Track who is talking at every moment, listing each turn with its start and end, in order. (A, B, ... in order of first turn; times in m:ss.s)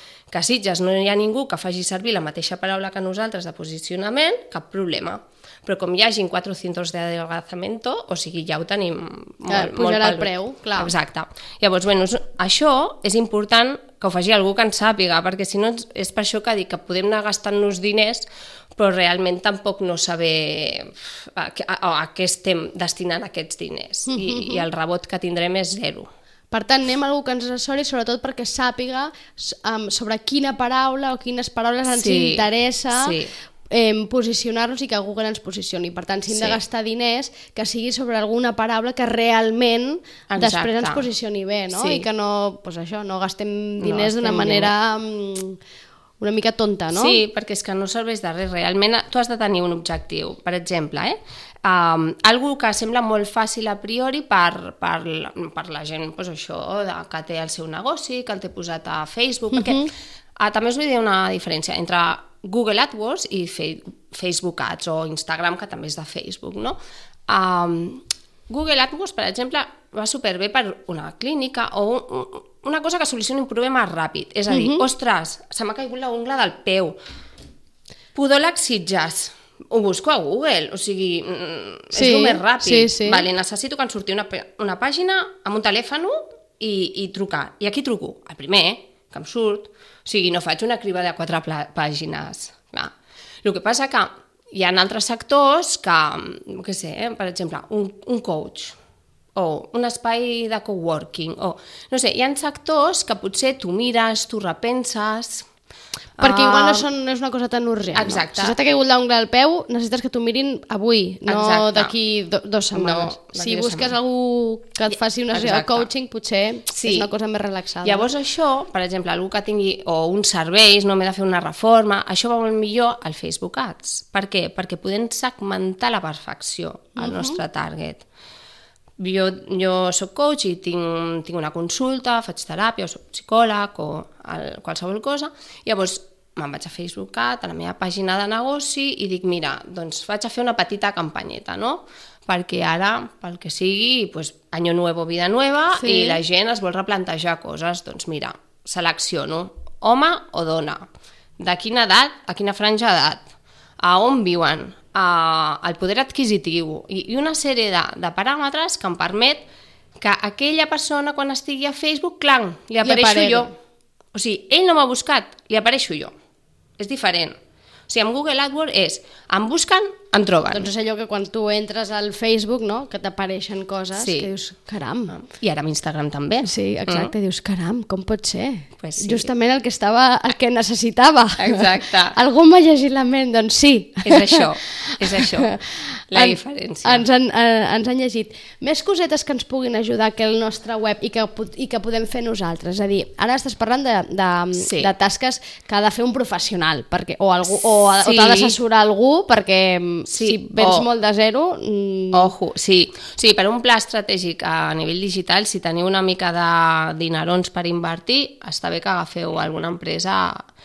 0:00.3-0:26.1 A
0:09.5-0:10.9 B
0:24.1-0:24.6 B
0:26.5-0:33.2 B
0:31.9-0:33.3 A
0:33.7-0:45.6 B
0:36.3-0:36.6 A
0:40.3-0:41.1 A
0:41.7-0:42.0 A
0:43.8-0:44.7 A
0:46.2-0:47.2 B
0:46.9-1:17.0 A
0:59.5-0:59.9 B
1:14.5-1:14.8 B
1:18.1-1:38.8 A
1:21.9-1:23.2 B
1:39.3-1:45.5 A
1:46.2-1:46.9 A
1:46.2-1:58.1 B
1:47.9-1:48.6 A
1:51.2-1:51.9 A
1:52.7-1:54.0 A
1:54.9-1:55.9 A
1:56.7-1:57.1 A
1:57.8-2:08.0 A
2:07.0-2:07.4 B
2:09.0-2:30.9 A
2:25.7-2:26.2 B
2:31.4-2:33.3 A
2:33.8-2:43.5 A
2:42.8-2:43.5 B
2:44.1-2:46.1 A
2:46.8-2:50.7 A
2:50.5-2:55.2 B
2:54.0-2:54.3 A
2:55.1-2:57.1 A
2:56.4-3:22.3 B
2:58.8-2:59.3 A
3:01.4-3:02.2 A
3:04.0-3:05.5 A
3:06.1-3:07.0 A
3:14.6-3:14.9 A
3:18.0-3:18.6 A
3:20.1-3:20.9 A
3:22.1-3:30.5 A